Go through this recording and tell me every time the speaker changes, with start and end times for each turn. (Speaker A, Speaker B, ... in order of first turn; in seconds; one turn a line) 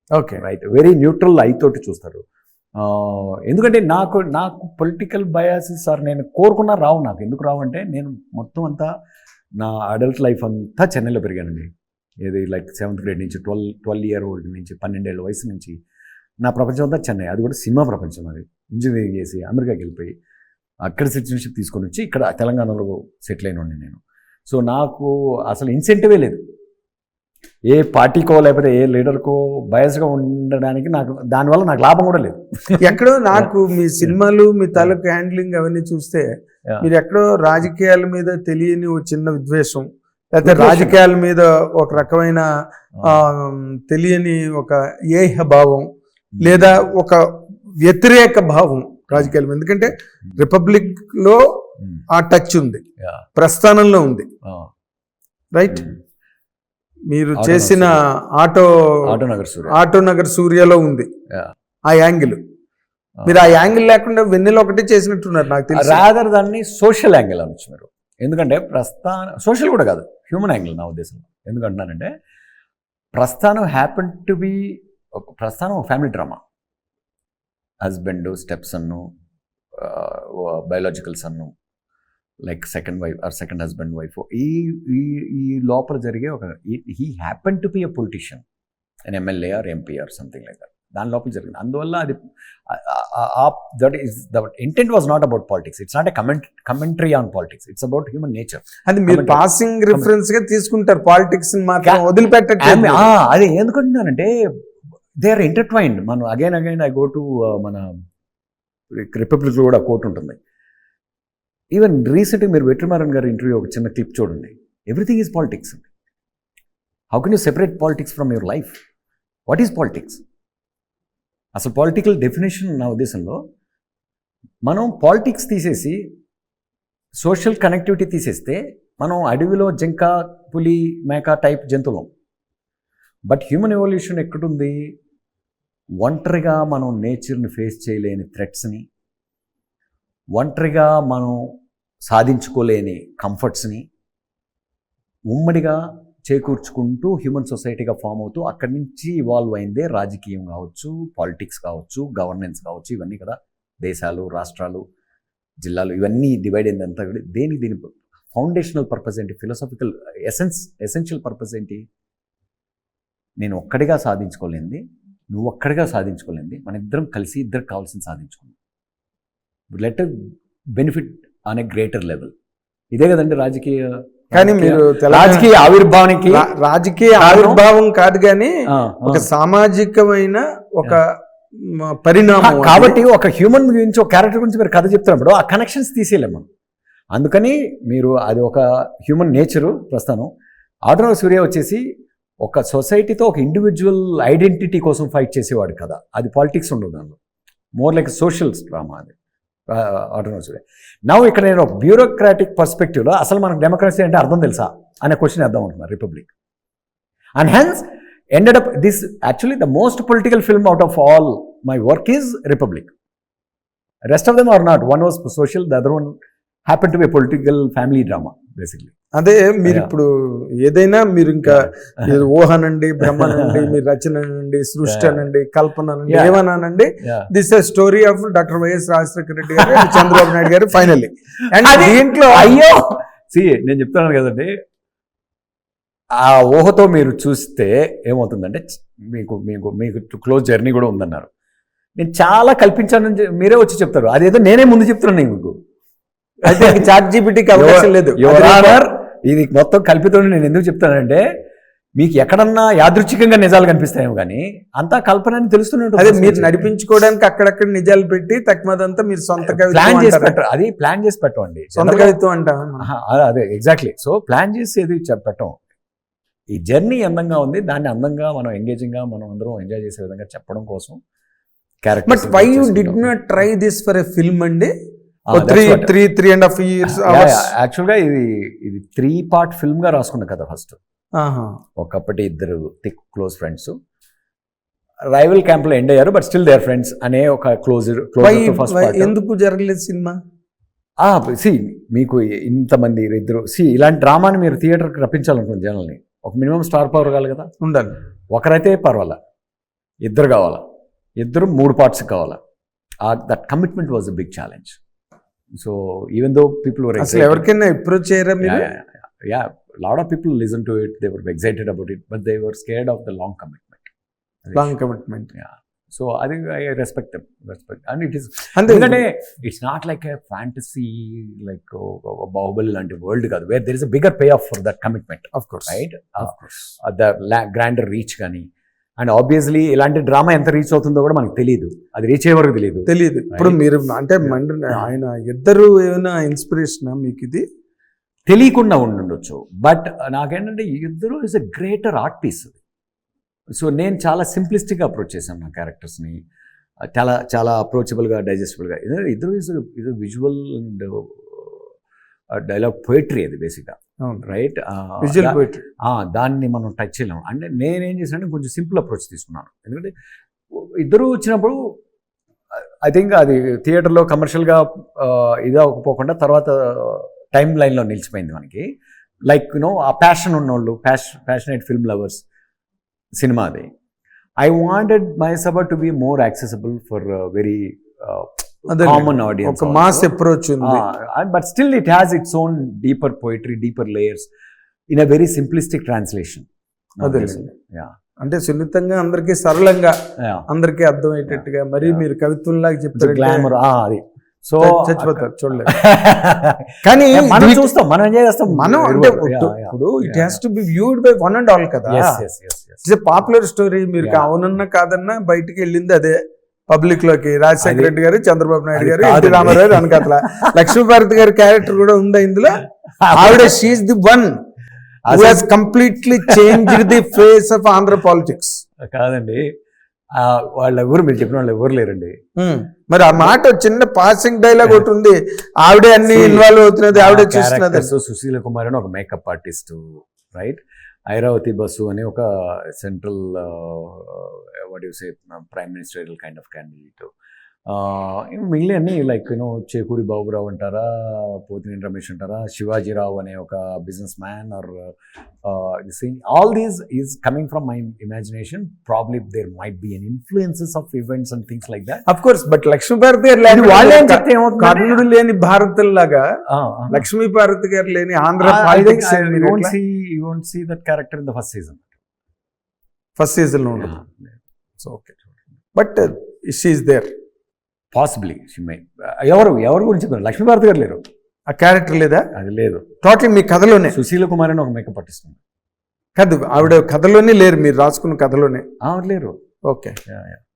Speaker A: 0.1-0.4
Speaker B: 0.4-2.2
Speaker B: 2.8-8.9
Speaker B: 9.6-11.7
Speaker B: 12.2-15.8
Speaker B: 16.4-20.1
Speaker B: 20.9-26.4
Speaker B: 27.7-32.8
Speaker A: 32.8-36.3
Speaker A: 36.8-42.5
Speaker B: 40.4-41.0
Speaker A: 43.0-45.9
Speaker B: 46.4-46.7
Speaker A: 46.4-47.2
Speaker A: 47.8-51.4
Speaker A: 52.1-52.8
Speaker A: 53.4-54.3
Speaker A: 55.5-55.8
Speaker A: 57.1-58.7
Speaker B: 57.4-58.0
Speaker B: 59.1-59.8
Speaker A: 59.7-61.1
Speaker A: 61.9-62.4
Speaker A: 63.3-66.0
Speaker B: 65.7-72.1
Speaker B: 73.2-76.4
Speaker B: 77.8-79.1
Speaker B: 79.8-81.5
Speaker B: 82.5-88.4
Speaker B: 89.1-92.2
Speaker B: 92.7-100.1
Speaker A: 98.9-103.1
Speaker B: 102.6-104.3
Speaker B: 105.2-107.9
Speaker B: 109.0-110.4
Speaker B: 111.7-115.8
Speaker B: 117.1-118.8
Speaker B: 119.5-120.2
Speaker B: 121.6-123.4
Speaker B: 124.7-126.0
Speaker B: 127.2-132.1
Speaker B: 133.3-134.8
Speaker B: 136.0-138.8
Speaker B: 140.4-141.4
Speaker B: 142.1-143.8
Speaker B: 145.3-145.8
Speaker B: 146.3-154.8
Speaker B: 155.6-161.8
Speaker B: 163.4-168.5
Speaker B: 169.7-170.1
Speaker B: 170.8-172.3
Speaker B: 172.9-176.5
Speaker A: 174.3-175.5
Speaker A: 176.3-178.5
Speaker B: 177.2-177.6
Speaker B: 178.7-179.3
Speaker A: 179.1-181.1
Speaker A: 181.9-183.0
Speaker B: 182.4-186.5
Speaker B: 187.2-190.3
Speaker B: 190.9-191.8
Speaker B: 192.4-197.2
Speaker B: 197.8-199.1
Speaker B: 199.7-206.3
Speaker B: 207.4-207.8
Speaker B: 208.4-212.9
Speaker B: 214.1-216.1
Speaker B: 216.7-218.9
Speaker A: 219.2-220.1
Speaker A: 220.6-232.6
Speaker B: 221.7-222.1
Speaker B: 223.2-223.6
Speaker B: 224.8-225.2
Speaker B: 226.1-226.4
Speaker B: 229.6-230.4
Speaker B: 231.6-234.5
Speaker B: 236.2-241.3
Speaker B: 242.0-245.6
Speaker A: 246.4-248.8
Speaker B: 246.5-246.8
Speaker B: 247.5-251.2
Speaker B: 252.0-256.6
Speaker A: 256.0-260.4
Speaker B: 259.5-262.1
Speaker A: 261.8-262.9
Speaker B: 262.8-265.6
Speaker B: 266.5-271.0
Speaker B: 271.8-273.1
Speaker A: 272.1-274.7
Speaker B: 275.3-275.9
Speaker A: 275.3-277.5
Speaker B: 276.9-280.8
Speaker A: 281.2-281.5
Speaker B: 281.8-283.8
Speaker B: 285.1-289.1
Speaker A: 288.2-290.2
Speaker B: 291.0-297.5
Speaker A: 297.6-297.9
Speaker B: 298.3-299.2
Speaker B: 300.0-300.6
Speaker B: 301.2-302.4
Speaker B: 303.1-304.8
Speaker B: 305.6-307.4
Speaker A: 307.0-308.7
Speaker B: 308.4-313.9
Speaker B: 314.4-314.7
Speaker A: 314.5-315.3
Speaker B: 315.3-328.5
Speaker A: 318.6-319.0
Speaker A: 325.3-326.6
Speaker B: 329.0-333.6
Speaker A: 332.9-337.4
Speaker B: 334.3-334.9
Speaker B: 338.3-342.6
Speaker B: 343.6-346.2
Speaker B: 346.9-351.7
Speaker B: 352.4-359.9
Speaker A: 355.0-355.6
Speaker B: 360.5-361.6
Speaker B: 362.8-368.7
Speaker B: 369.3-372.2
Speaker B: 373.2-373.7
Speaker B: 374.4-380.1
Speaker A: 378.7-380.8
Speaker B: 380.6-384.3
Speaker B: 384.9-386.5
Speaker B: 387.0-387.9
Speaker A: 387.0-387.4
Speaker A: 388.2-389.9
Speaker A: 390.5-393.5
Speaker B: 391.3-392.0
Speaker B: 392.9-400.4
Speaker A: 394.6-395.7
Speaker A: 396.8-397.6
Speaker A: 398.5-402.2
Speaker B: 401.9-402.8
Speaker A: 402.8-406.2
Speaker B: 404.0-404.3
Speaker A: 406.7-412.6
Speaker B: 407.6-407.9
Speaker B: 408.8-410.0
Speaker B: 413.0-413.5
Speaker A: 413.1-414.3
Speaker B: 415.1-415.4
Speaker A: 415.1-418.6
Speaker B: 418.8-419.4
Speaker B: 420.2-422.2
Speaker A: 422.4-427.9
Speaker B: 426.1-437.1
Speaker B: 437.7-444.9
Speaker B: 445.4-452.0
Speaker A: 452.1-456.2
Speaker B: 453.5-455.0
Speaker B: 456.5-457.0
Speaker A: 456.9-459.7
Speaker B: 458.4-461.8
Speaker A: 463.2-463.9
Speaker B: 463.8-464.3
Speaker A: 464.8-465.1
Speaker A: 465.8-467.1
Speaker B: 467.9-471.0
Speaker A: 471.5-472.3
Speaker B: 472.4-472.9
Speaker A: 473.0-474.0
Speaker B: 473.9-475.4
Speaker A: 476.2-478.6
Speaker B: 478.8-479.4
Speaker A: 479.7-480.0
Speaker B: 480.1-480.4